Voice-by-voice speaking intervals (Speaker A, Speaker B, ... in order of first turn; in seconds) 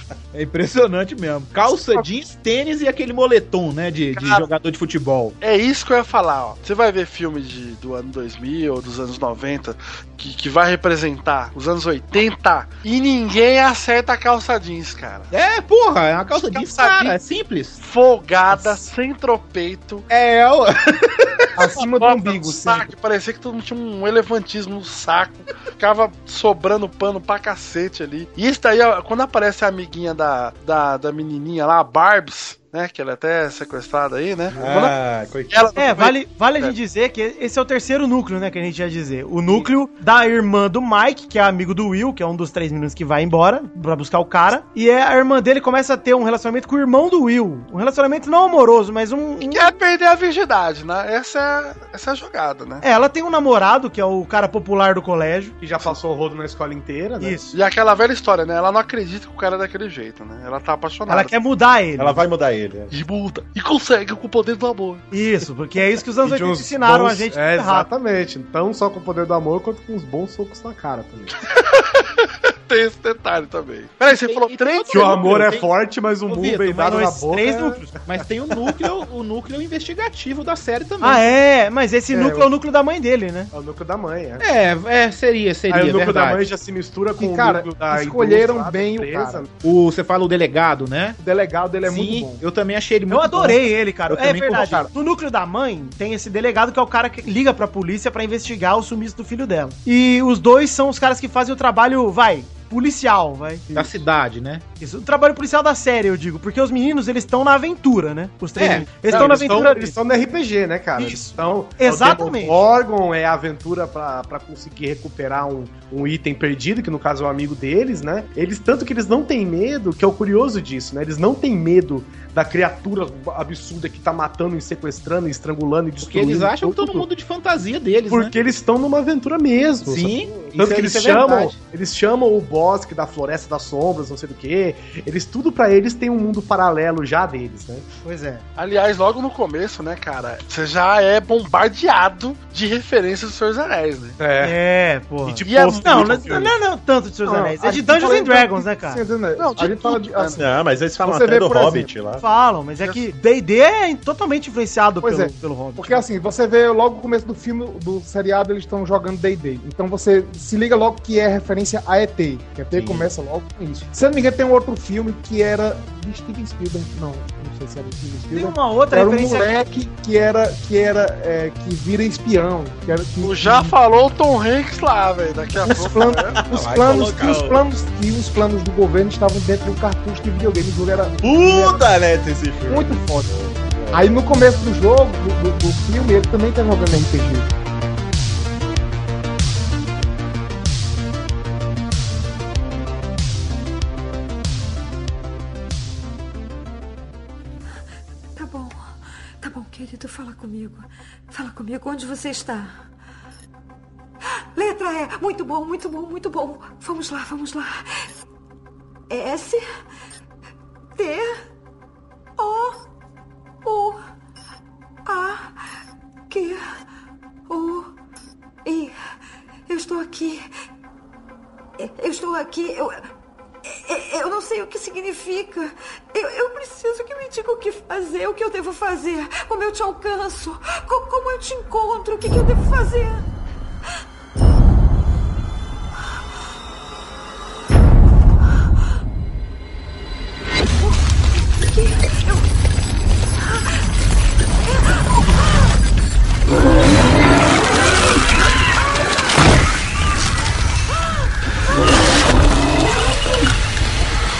Speaker A: 0.3-5.4, 15.3-17.8, 18.5-18.8, 20.1-21.5, 74.0-75.7, 76.3-77.2, 78.0-81.2, 84.4-86.5, 89.6-91.2, 91.8-94.8, 103.7-104.6, 108.5-109.0, 126.0-128.3, 129.8-131.6, 162.8-163.0
Speaker B: 4.1-4.5, 5.4-15.3, 16.5-17.2, 17.8-20.1, 21.6-35.0, 35.5-36.7, 49.4-52.8, 57.5-61.3, 62.9-65.1, 71.4-75.1, 109.1-109.5, 138.6-144.2, 145.4-146.3, 149.4-150.4, 152.8-153.1, 173.2-176.4
Speaker C: 21.6-22.9, 82.1-82.5, 87.2-89.5, 91.2-92.4, 147.2-150.4, 151.0-151.9, 155.0-173.7, 175.7-181.8, 182.7-183.4, 183.9-187.5
Speaker D: 34.5-34.9, 55.6-57.4, 66.2-71.3, 74.9-77.9, 83.5-84.4, 85.7-89.5, 109.0-127.0, 128.1-137.8, 144.2-144.6, 145.2-146.5
Speaker E: 34.5-35.6, 62.0-62.9, 150.4-152.2, 175.9-177.6, 181.2-184.1
Speaker F: 35.8-49.7, 52.8-55.6, 57.2-57.6, 61.1-62.2, 65.1-67.9, 77.1-77.9, 81.0-83.5, 93.1-103.7, 104.8-110.0, 111.0-112.6, 138.0-138.4, 144.4-149.0, 152.2-156.1, 168.3-169.5
Speaker G: 198.3-202.8, 204.6-208.0, 209.1-209.6, 210.9-211.3, 212.4-212.8, 213.6-214.0, 215.1-215.5, 216.3-216.7, 217.5-217.9, 218.6-218.9, 219.7-220.4, 221.8-223.1, 223.6-233.2, 240.8-242.5, 243.3-243.8, 244.6-245.7